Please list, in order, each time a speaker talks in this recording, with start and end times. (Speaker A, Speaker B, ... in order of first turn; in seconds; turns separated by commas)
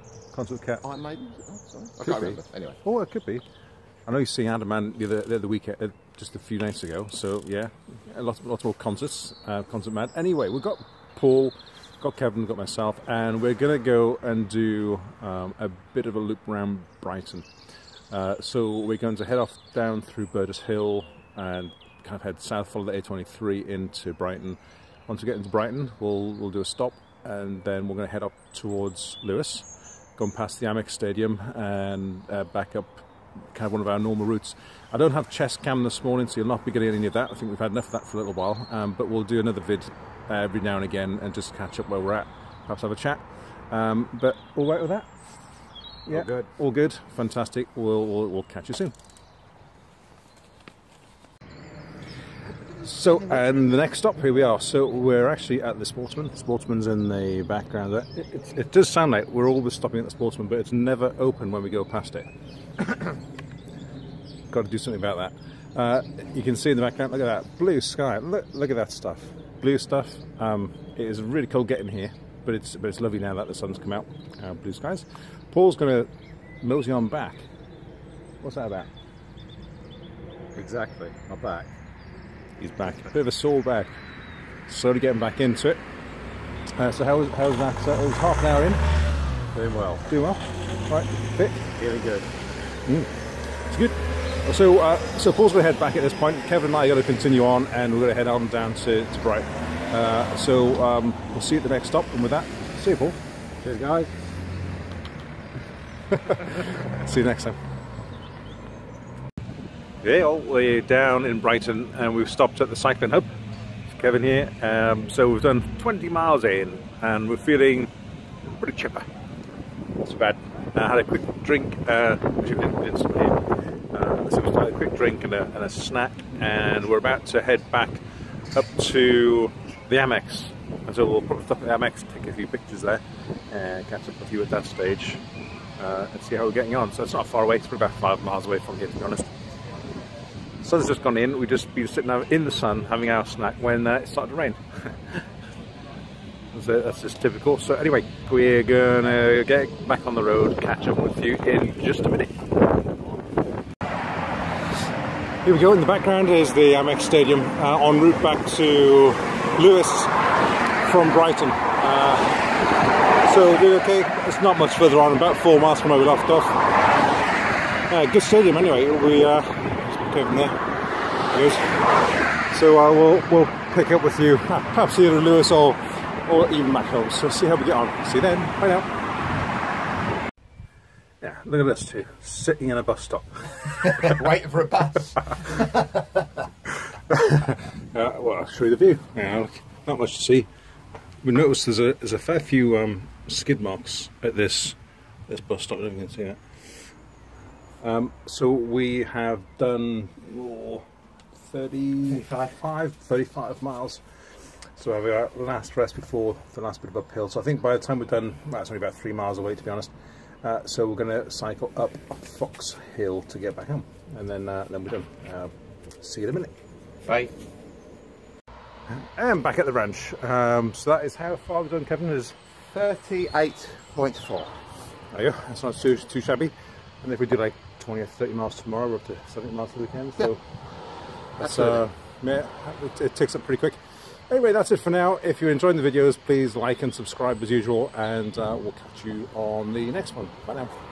Speaker A: 0.3-0.9, Speaker B: 1.1-2.8, Speaker A: 2.0-3.4, Speaker A: 4.0-17.5, Speaker A: 18.1-45.1, Speaker A: 46.0-48.9, Speaker B: 46.1-46.5, Speaker A: 52.7-62.3, Speaker A: 62.8-63.2, Speaker A: 64.5-76.1, Speaker A: 76.6-77.5, Speaker A: 78.4-78.9, Speaker B: 80.5-81.7, Speaker A: 82.6-83.9, Speaker A: 84.7-85.8, Speaker A: 86.8-88.8, Speaker B: 89.5-90.0, Speaker A: 90.1-91.7, Speaker B: 91.8-92.3, Speaker A: 92.8-93.1, Speaker A: 93.6-103.2, Speaker B: 103.6-104.1, Speaker A: 106.1-107.6, Speaker A: 110.0-113.3, Speaker A: 113.9-117.9, Speaker A: 118.5-119.0, Speaker A: 120.0-135.2, Speaker A: 135.8-139.3, Speaker A: 140.6-144.6, Speaker A: 146.5-152.3, Speaker A: 155.4-160.1, Speaker A: 160.8-162.4, Speaker A: 163.2-166.7, Speaker A: 167.9-170.6, Speaker A: 171.3-171.7, Speaker A: 172.5-178.9, Speaker A: 181.2-184.6, Speaker A: 185.3-185.7, Speaker A: 187.1-190.5, Speaker A: 191.2-194.8, Speaker A: 195.3-196.4, Speaker A: 197.8-200.8, Speaker A: 201.4-204.0, Speaker A: 204.8-209.9, Speaker A: 210.4-216.5, Speaker B: 217.1-217.3, Speaker A: 218.9-222.3, Speaker B: 222.7-224.5, Speaker A: 225.1-230.4, Speaker A: 231.4-240.8